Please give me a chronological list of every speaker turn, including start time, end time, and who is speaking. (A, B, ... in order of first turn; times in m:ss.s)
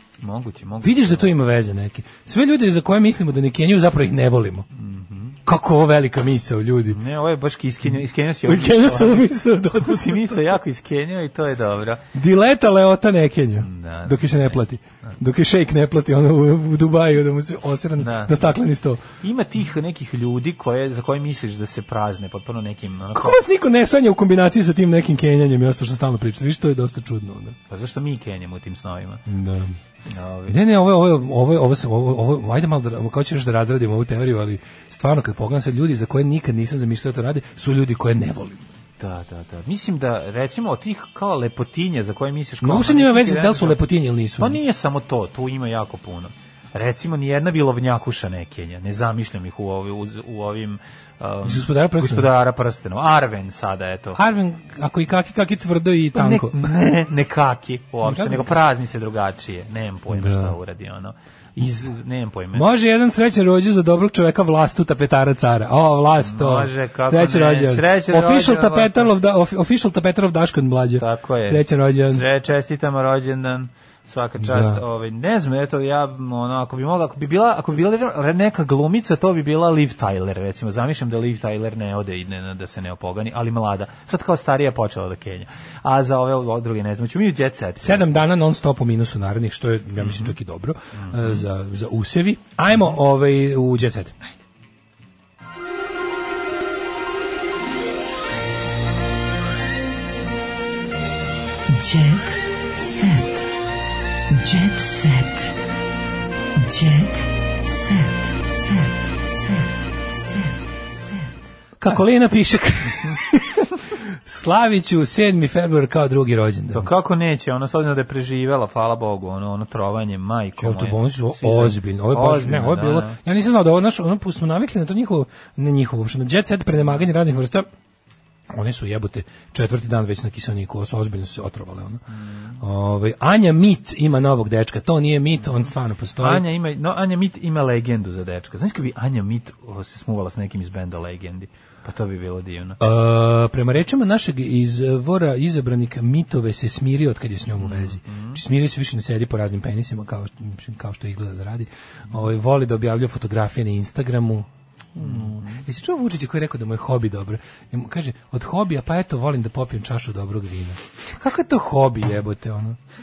0:00.2-0:01.3 A
0:00.8-0:04.6 B
0:04.7-0:05.4 A
0:05.4-0:07.0 B
0:06.9-0:12.0 A
0:08.4-0:10.5 B
0:12.1-0:19.0 B
0:13.6-0:15.1 A
0:18.0-0:18.6 A
0:19.2-0:23.4 A
0:23.1-0:27.6 B
0:27.7-0:29.2 A
0:29.3-0:29.8 B
0:30.1-0:30.6 A
0:30.5-0:38.6 B
0:39.0-0:43.8 A
0:42.6-0:44.6 B
0:44.4-0:54.2 A
0:51.4-0:52.3 B
0:54.2-0:56.6 B
0:56.1-1:02.7 A
0:58.0-0:58.5 B
1:00.1-1:00.5 B
1:02.5-1:12.2 B
1:06.2-1:09.1 A
1:11.0-1:28.1 A
1:14.4-1:14.8 B
1:27.8-1:34.2 B
1:30.0-1:30.3 A
1:30.9-1:31.4 A
1:41.7-1:43.4 C
1:44.3-1:45.5 C
1:46.5-1:50.5 C
1:51.8-1:53.7 B
1:54.2-1:56.9 B
1:56.7-2:03.2 A
2:00.6-2:07.7 B
2:08.5-2:12.0 B
2:12.1-2:12.6 A
2:12.6-2:16.4 B
2:16.2-2:22.8 A
2:22.8-2:42.8 B
2:27.6-2:28.4 A
2:35.0-2:35.6 A